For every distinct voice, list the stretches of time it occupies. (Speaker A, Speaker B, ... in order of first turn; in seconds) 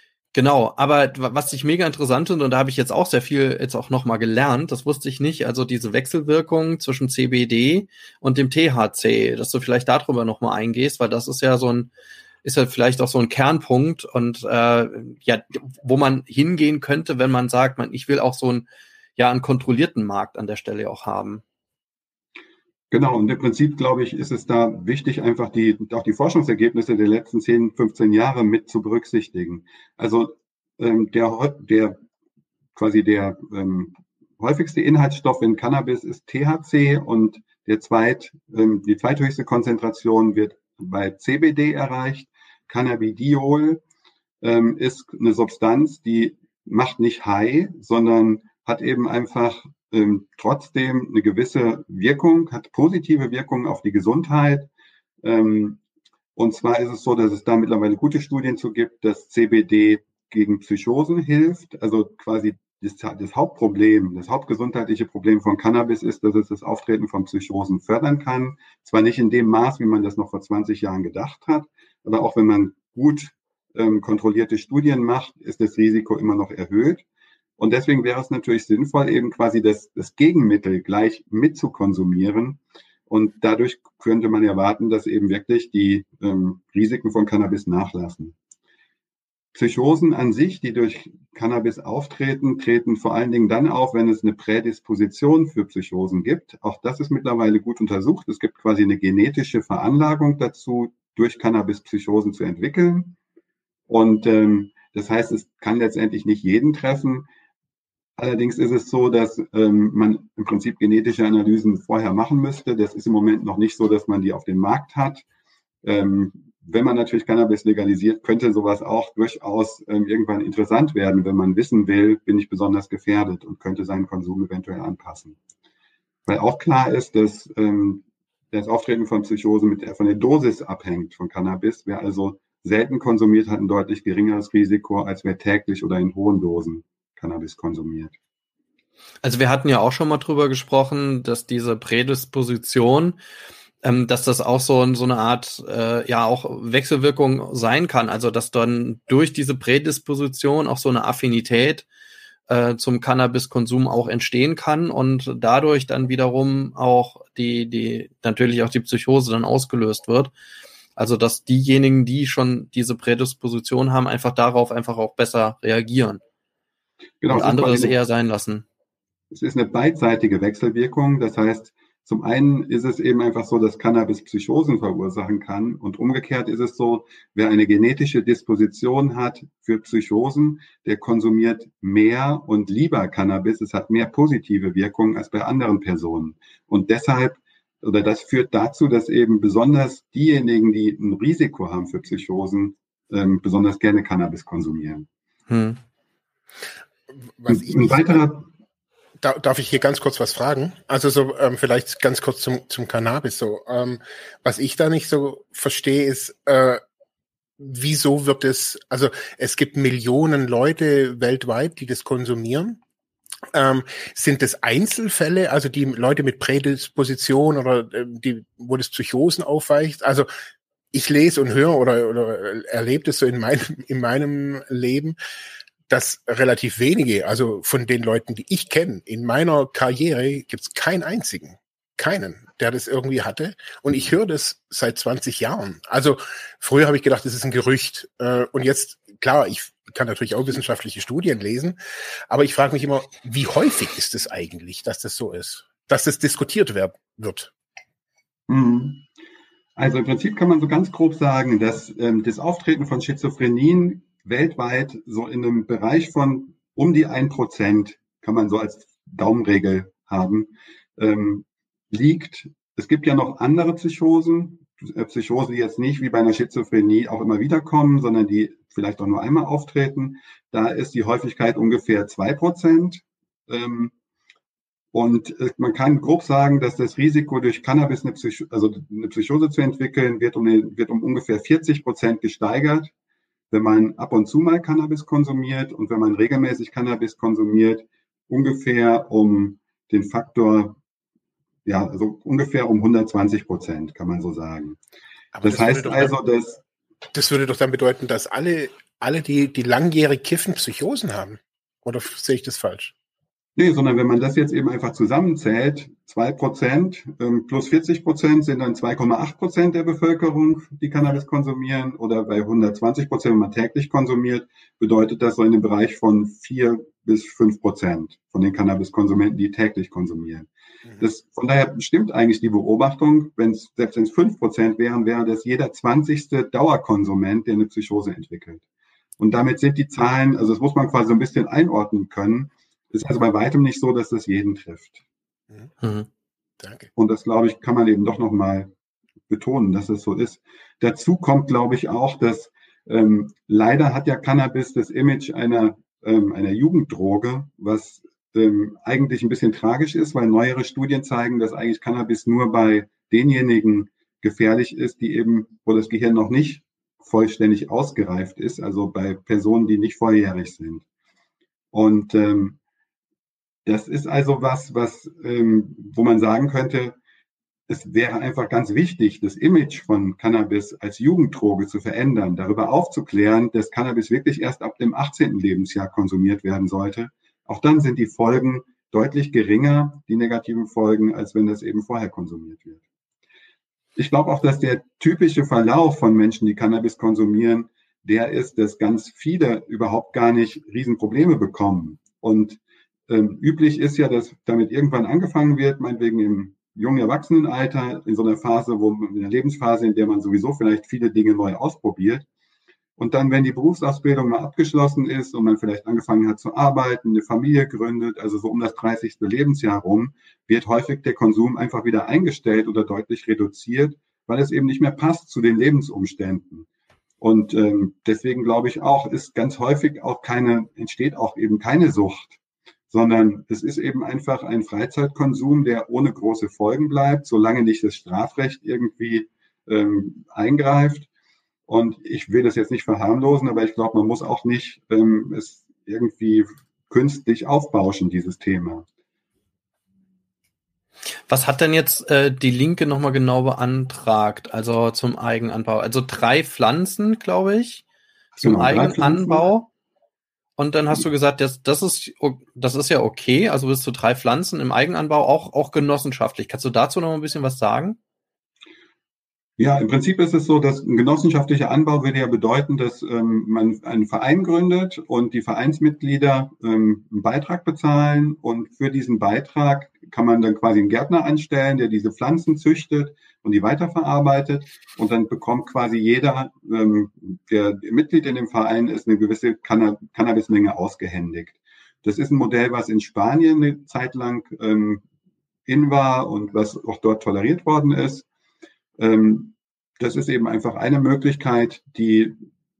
Speaker A: 0.3-11.9, 12.4-18.6, 19.2-21.4, 139.2-143.2, 143.8-151.8, 152.5-160.3, 160.9-166.2, 167.3-168.6, 195.5-195.8, 335.8-336.1, 441.3-447.8, 448.4-449.7, 450.6-458.0
Speaker B: 22.9-32.0, 32.8-43.8, 44.4-54.7, 55.2-55.8, 56.4-77.0, 77.6-88.3, 89.5-103.2, 103.9-107.3, 108.2-115.2, 115.8-125.4, 126.3-138.1, 167.2-167.9, 169.3-195.1, 197.5-198.4, 248.5-249.0, 249.8-273.9, 274.9-282.9, 283.5-290.8, 291.6-294.8, 295.4-296.6, 303.6-328.6, 329.2-335.0, 336.9-338.7, 339.3-360.8, 361.7-362.6, 363.6-367.0, 367.7-382.8, 383.9-402.2, 403.0-416.6, 417.2-422.4, 422.9-431.1, 431.7-438.8, 448.4-449.5, 459.6-485.0, 485.7-488.2, 489.0-492.4
Speaker C: 197.2-198.2, 199.2-206.8, 207.6-212.8, 213.5-220.3, 220.9-225.2, 225.9-241.8, 242.3-247.5, 295.3-296.1, 297.1-302.9, 336.6-336.9